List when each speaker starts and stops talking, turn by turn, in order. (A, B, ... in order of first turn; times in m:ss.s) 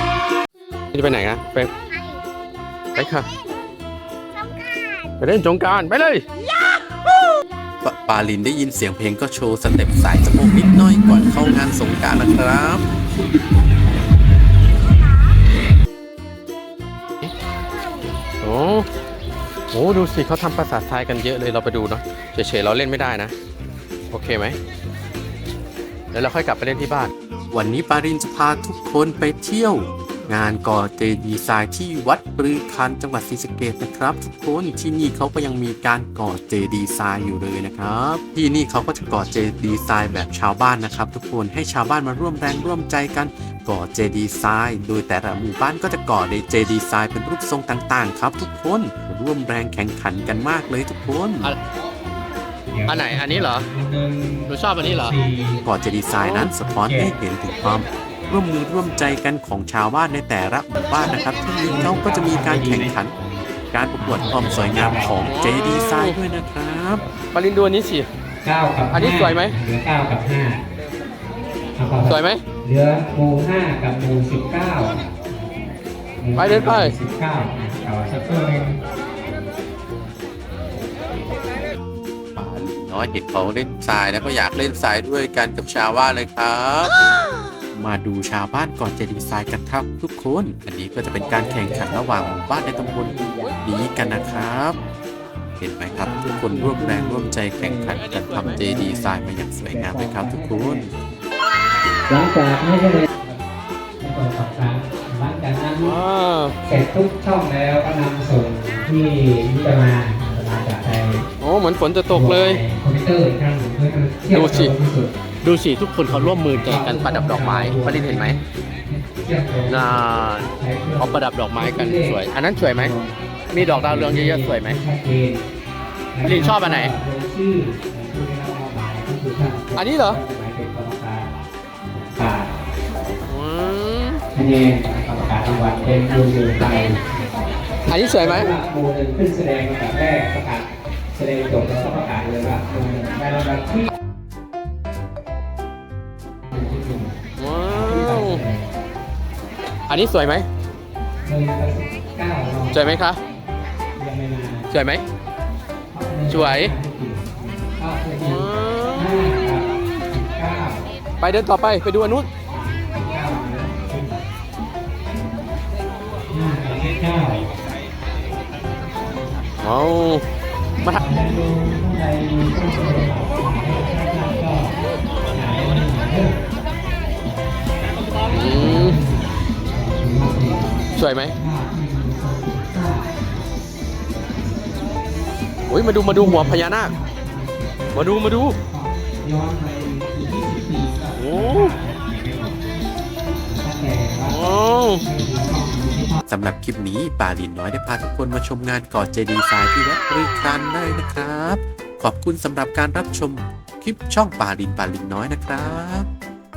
0:00.9-0:01.7 A
0:01.7-0:02.3 B
0:02.9-0:03.7 B
0:03.0-0:03.3 A
0:04.4-0:05.2 B
0:05.2-0:06.2 A
0:06.4-0:06.9 B
0:07.8-0:12.8 C
0:18.4-0:18.9 A
0:19.7-0:23.3 A
0:24.1-0:24.6 A
0:26.1-0:27.1 A
0:27.5-0:51.5 C
0:52.7-0:55.6 D
0:52.9-0:53.7 A
0:54.5-0:55.2 A
0:55.6-1:03.2 C
0:56.2-0:57.2 D
1:01.6-1:03.0 D
1:03.7-1:07.1 C
1:04.0-1:05.3 D
1:05.2-1:06.2 A
1:07.3-1:08.1 A
1:08.4-1:10.6 D
1:08.9-1:09.6 A
1:11.8-1:15.5 D
1:12.1-1:12.4 A
1:16.2-1:18.8 D
1:16.4-1:17.0 A
1:22.4-1:27.0 C
1:27.7-1:34.8 C
1:31.1-1:35.0 D
1:35.6-1:40.9 C
1:35.9-1:41.2 D
1:37.9-1:38.7 A
1:42.1-1:43.5 D
1:44.0-1:46.0 D
1:45.8-1:46.6 A
1:46.6-1:51.3 D
1:51.4-1:52.6 A
1:52.1-1:55.1 D
1:54.3-1:54.8 A
1:55.4-1:58.4 A
1:56.1-2:05.4 D
1:59.7-2:00.5 A
2:01.0-2:03.0 A
2:03.5-2:04.8 A
2:06.1-2:11.3 D
2:06.2-2:06.9 A
2:09.8-2:10.2 A
2:11.9-2:12.5 D
2:13.3-2:14.2 A
2:14.3-2:17.5 D
2:17.9-2:18.5 A
2:18.1-2:23.9 D
2:26.5-2:27.2 D
2:27.4-2:28.4 A
2:27.7-2:28.7 D
2:29.9-2:30.5 A
2:31.2-2:33.0 D
2:32.7-2:33.2 A
2:34.0-2:34.7 D
2:34.7-2:35.0 A
2:35.9-2:40.9 D
2:36.3-2:36.7 A
2:38.2-2:39.5 A
2:41.2-2:42.3 A
2:42.5-2:44.3 D
2:46.3-2:47.5 D
2:49.6-2:50.2 A
2:50.9-2:54.8 D
2:55.3-2:56.4 D
2:58.3-2:59.0 A
2:58.3-3:03.2 D
3:01.0-3:01.4 A
3:05.7-3:06.9 A
3:06.0-3:12.6 D
3:07.9-3:08.6 A
3:11.2-3:11.8 A
3:13.4-3:14.4 D
3:14.3-3:15.0 A
3:15.0-3:16.2 D
3:16.3-3:26.1 C